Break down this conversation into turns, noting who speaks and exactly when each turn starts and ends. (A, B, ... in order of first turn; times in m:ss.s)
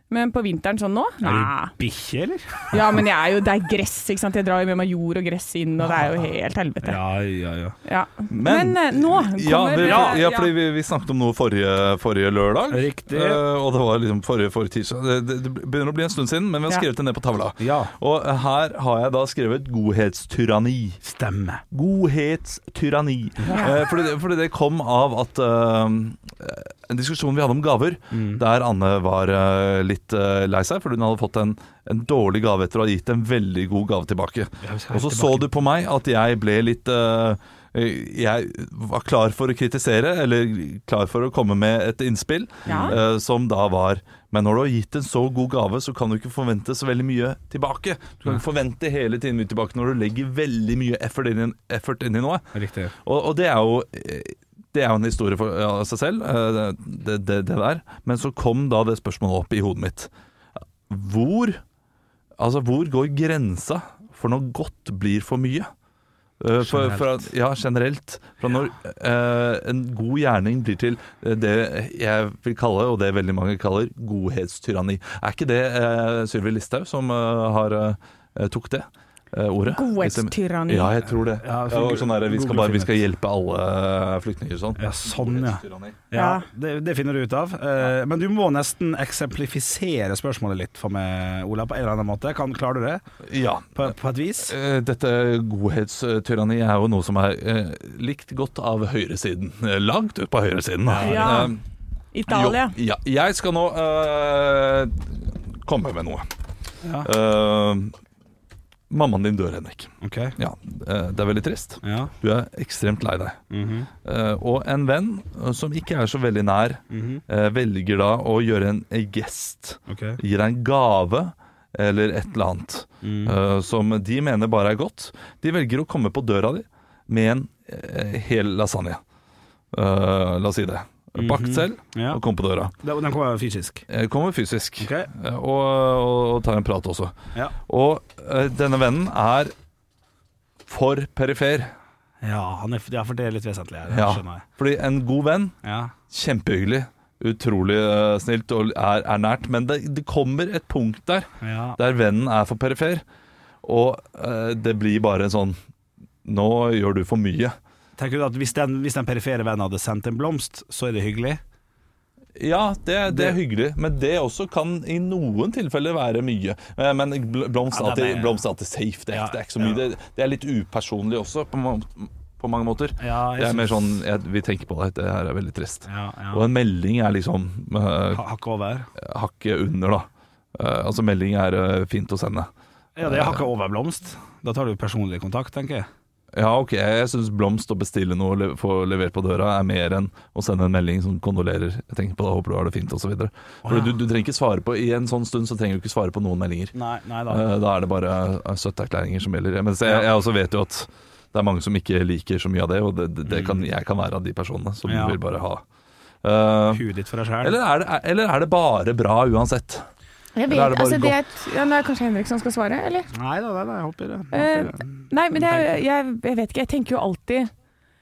0:00.1-0:01.7 A
0:01.2-0:03.0 B
0:02.7-0:07.0 A
0:06.8-0:07.8 B
0:07.8-0:10.5 A
0:08.3-0:21.0 C
0:09.8-0:10.2 B
0:12.7-0:13.4 B
0:17.6-0:17.9 B
0:21.0-0:21.6 B
0:21.7-0:52.4 C
0:23.4-0:23.7 B
0:28.1-0:28.4 B
0:34.6-0:35.5 B
0:42.7-0:43.0 A
0:42.7-0:43.0 B
0:52.5-0:52.9 B
0:53.0-1:00.1 C
1:00.9-1:01.6 C
1:02.4-1:05.7 C
1:06.4-1:26.0 C
1:06.7-1:07.2 B
1:19.7-1:20.9 A
1:21.4-1:22.9 B
1:24.8-1:33.0 B
1:26.1-1:26.5 A
1:33.2-1:41.6 C
1:33.8-1:34.5 B
1:40.9-1:41.5 B
1:41.0-1:41.5 A
1:42.1-1:42.8 A
1:42.3-1:46.3 C
1:46.8-1:47.1 B
1:47.0-1:47.9 C
1:48.9-1:53.4 C
1:50.0-1:50.4 B
1:51.8-1:52.1 B
1:53.5-1:53.9 B
1:54.0-2:09.0 C
1:56.9-1:57.2 B
1:59.9-2:00.2 B
2:03.0-2:03.4 B
2:09.7-2:12.7 C
2:11.2-2:12.2 B
2:12.8-2:13.9 B
2:13.9-2:19.5 C
2:14.8-2:15.1 B
2:20.7-2:21.7 C
2:22.2-2:24.4 B
2:23.9-2:25.6 C
2:25.6-2:25.9 B
2:26.1-2:33.0 C
2:31.4-2:31.8 B
2:33.6-2:35.6 C
2:36.2-2:37.6 C
2:38.0-2:41.4 B
2:42.4-2:58.2 C
2:43.1-2:43.4 B
2:47.7-2:48.4 B
2:49.1-2:49.8 B
2:53.0-2:54.0 B
2:55.9-2:56.5 B
2:58.1-2:58.9 B
2:59.0-3:02.5 C
3:03.0-3:05.9 B
3:03.0-3:03.5 C
3:06.3-3:16.7 C
3:13.6-3:14.0 B
3:16.8-3:17.5 B
3:17.3-3:25.6 C
3:23.3-3:23.7 B
3:24.8-3:25.2 B
3:26.2-3:26.8 C
3:26.7-3:27.6 B
3:27.4-3:29.9 C
3:30.4-3:33.1 A
3:30.5-3:31.2 C
3:33.1-3:35.1 B
3:34.3-3:37.5 A